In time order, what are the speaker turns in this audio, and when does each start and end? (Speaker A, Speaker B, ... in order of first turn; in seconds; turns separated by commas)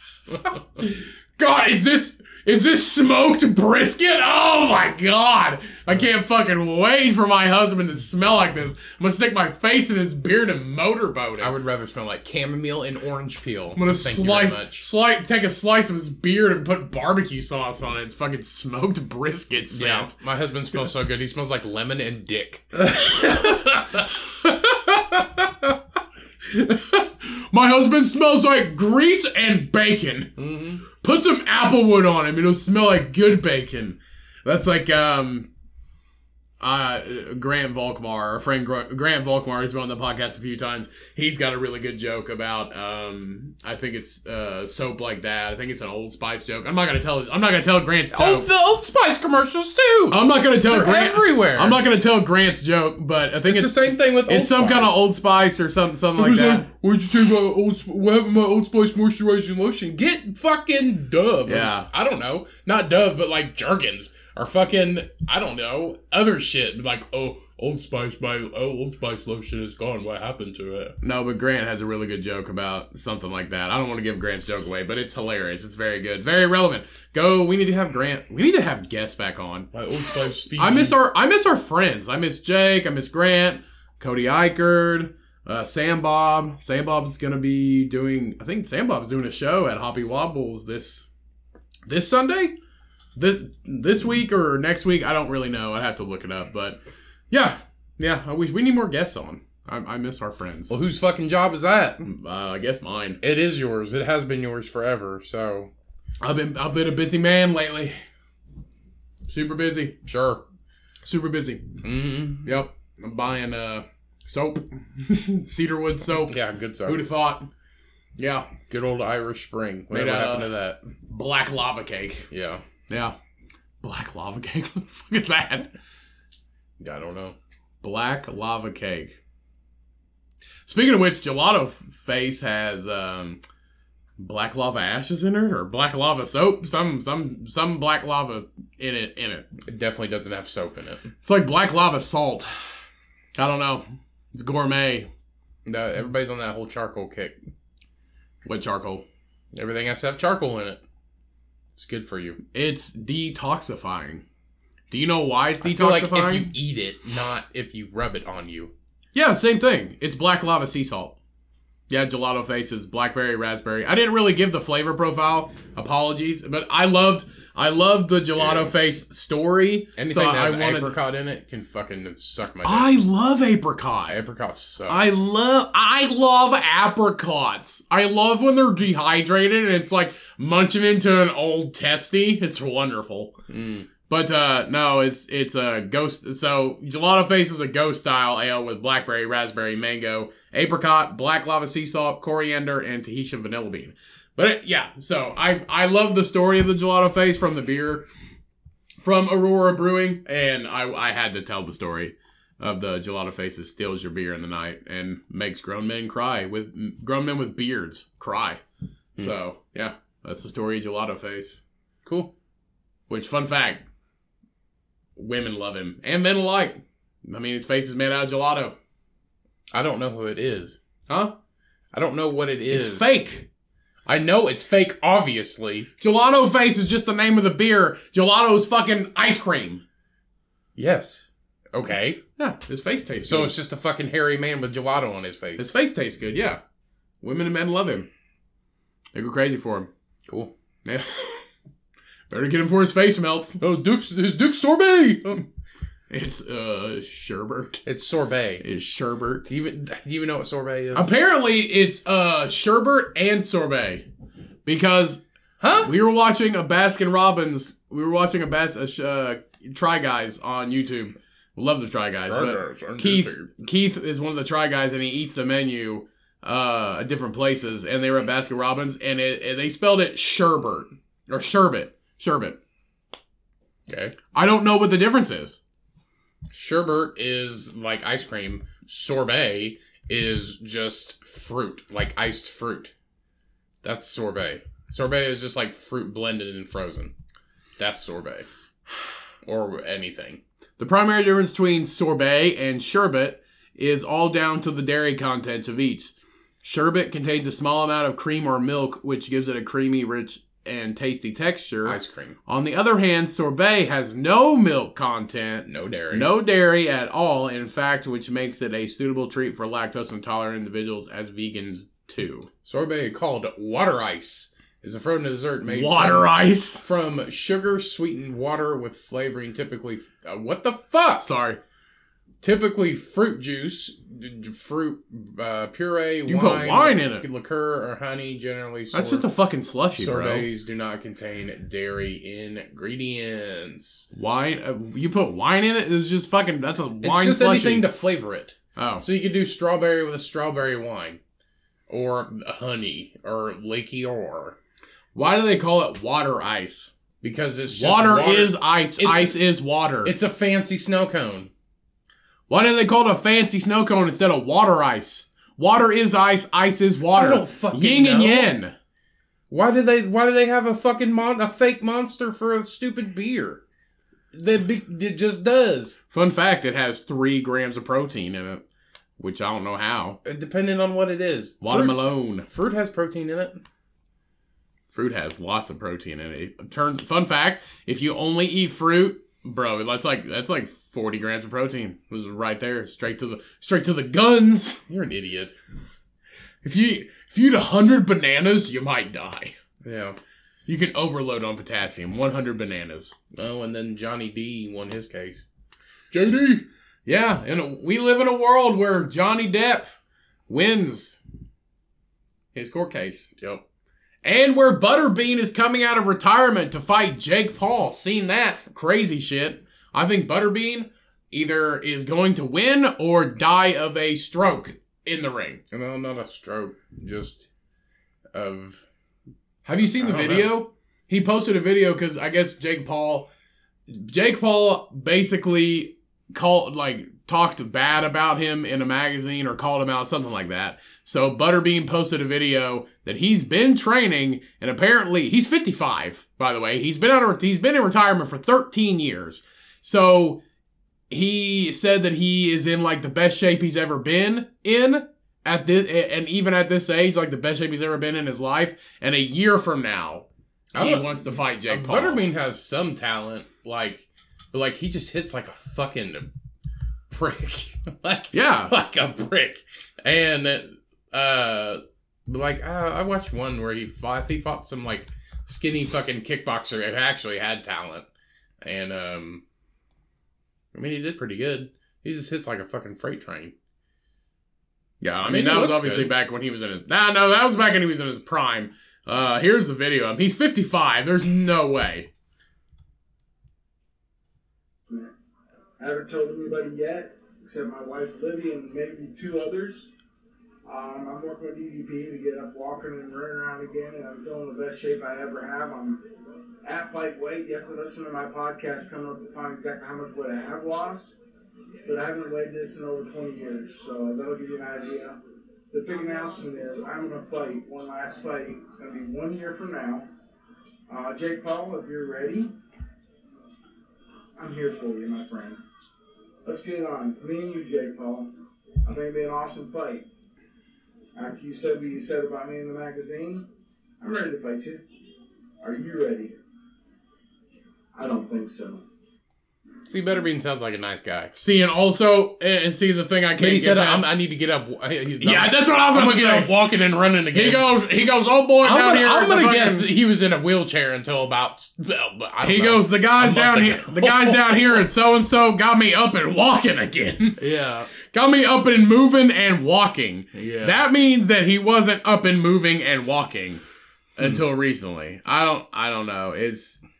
Speaker A: 0.4-11.5, Speaker B: 11.4-14.8, Speaker A: 13.7-20.1, Speaker B: 19.7-24.0, Speaker A: 22.8-25.8, Speaker A: 26.4-30.4, Speaker B: 30.4-30.8, Speaker A: 30.9-35.5, Speaker A: 36.6-48.5, Speaker B: 48.1-51.8, Speaker A: 50.1-56.7, Speaker B: 53.4-55.1, Speaker B: 56.2-70.9, Speaker A: 61.5-61.9, Speaker A: 71.0-79.7, Speaker B: 79.7-81.0, Speaker A: 80.5-91.1, Speaker A: 91.9-92.5, Speaker A: 93.2-96.8, Speaker A: 97.3-100.8, Speaker B: 100.7-102.0, Speaker A: 102.0-103.2, Speaker B: 103.2-105.7, Speaker A: 106.2-108.0, Speaker A: 109.3-109.9, Speaker B: 110.0-110.4, Speaker A: 111.0-111.7, Speaker B: 111.8-112.5, Speaker A: 112.4-117.5, Speaker B: 116.2-117.1, Speaker A: 118.2-118.5, Speaker B: 118.7-120.8, Speaker A: 119.9-120.5, Speaker A: 121.1-122.3, Speaker B: 122.3-122.6, Speaker A: 122.9-123.2, Speaker A: 123.8-125.7, Speaker B: 126.8-127.4, Speaker A: 127.8-129.2, Speaker A: 130.6-133.4, Speaker A: 134.2-139.4, Speaker B: 139.6-141.1, Speaker A: 141.2-142.5, Speaker A: 143.3-145.1, Speaker B: 145.6-147.4, Speaker A: 148.4-149.0, Speaker B: 149.5-150.8, Speaker B: 151.7-152.4, Speaker A: 152.5-154.2, Speaker A: 154.9-156.5, Speaker B: 155.6-158.7, Speaker A: 159.1-161.2, Speaker A: 161.9-170.9, Speaker B: 168.4-168.7, Speaker B: 169.9-172.9, Speaker A: 172.6-174.2, Speaker B: 174.1-175.2, Speaker A: 174.9-183.4, Speaker B: 183.5-183.9, Speaker A: 184.1-198.1, Speaker A: 199.0-208.6, Speaker A: 209.2-211.6, Speaker B: 212.0-212.3, Speaker A: 213.1-213.8, Speaker A: 215.2-218.7, Speaker B: 219.7-220.8, Speaker A: 221.1-221.3, Speaker B: 221.9-223.1, Speaker A: 222.7-223.5, Speaker B: 224.1-225.9, Speaker A: 226.0-229.8, Speaker B: 230.8-232.2, Speaker A: 232.4-233.5, Speaker B: 233.2-235.7, Speaker A: 235.6-236.6, Speaker A: 237.2-238.1, Speaker A: 239.1-239.9, Speaker B: 240.3-240.5, Speaker A: 240.8-241.4, Speaker A: 242.3-243.6, Speaker B: 243.6-245.4, Speaker A: 246.1-247.8, Speaker B: 247.8-248.6, Speaker A: 248.6-249.4, Speaker B: 249.4-251.1, Speaker A: 250.9-254.1, Speaker A: 254.7-255.2, Speaker B: 255.6-255.9, Speaker A: 255.8-272.6, Speaker B: 262.3-263.5, Speaker B: 273.9-274.1, Speaker A: 274.3-275.6, Speaker B: 276.5-282.9, Speaker B: 283.8-287.1, Speaker B: 287.8-288.5, Speaker B: 289.4-290.4, Speaker A: 290.8-312.5, Speaker B: 301.8-302.4, Speaker B: 305.7-306.3, Speaker B: 312.6-316.3, Speaker A: 315.6-316.8, Speaker B: 316.8-321.3, Speaker A: 321.2-321.6, Speaker B: 322.4-329.2, Speaker A: 326.3-327.2, Speaker A: 328.9-330.5, Speaker B: 329.9-334.1, Speaker A: 334.1-337.9, Speaker B: 337.0-341.2, Speaker A: 338.8-339.0, Speaker B: 341.9-344.6, Speaker A: 345.1-346.9, Speaker B: 347.2-349.4, Speaker A: 347.7-350.1, Speaker B: 350.0-351.5, Speaker A: 352.5-358.7, Speaker B: 357.1-358.5, Speaker B: 359.5-363.6, Speaker B: 364.3-366.0, Speaker A: 366.1-368.6, Speaker A: 369.2-370.2, Speaker B: 370.2-373.6, Speaker A: 371.6-372.4, Speaker A: 374.9-384.8, Speaker B: 384.9-385.5, Speaker A: 386.6-389.6, Speaker B: 389.8-390.2, Speaker A: 390.7-393.1, Speaker B: 393.3-395.5, Speaker A: 396.1-399.9, Speaker A: 400.5-401.2, Speaker A: 402.5-403.4, Speaker A: 404.2-415.6, Speaker B: 415.7-417.5, Speaker B: 418.3-418.8, Speaker A: 419.6-423.3, Speaker B: 420.0-420.5, Speaker A: 423.9-440.4, Speaker A: 441.1-452.2, Speaker B: 450.7-456.3, Speaker B: 457.1-468.1, Speaker A: 458.3-458.7, Speaker B: 468.6-469.4, Speaker B: 470.7-473.5, Speaker A: 475.0-482.1, Speaker B: 475.2-476.1, Speaker C: 485.8-489.9, Speaker C: 490.6-496.0, Speaker C: 496.6-501.1, Speaker C: 501.9-505.2, Speaker C: 505.7-510.1, Speaker C: 510.9-512.5, Speaker C: 514.4-515.6, Speaker C: 516.4-518.3, Speaker C: 518.8-520.1, Speaker C: 521.1-523.5, Speaker C: 524.0-524.8, Speaker C: 525.6-526.4, Speaker C: 527.9-528.8, Speaker B: 529.8-531.3, Speaker A: 531.4-534.1, Speaker B: 533.4-537.7, Speaker A: 535.2-536.5, Speaker A: 537.3-539.9, Speaker B: 538.6-544.8, Speaker A: 542.4-547.4, Speaker B: 547.4-547.9, Speaker A: 548.0-553.6, Speaker B: 550.3-550.8, Speaker A: 554.2-556.8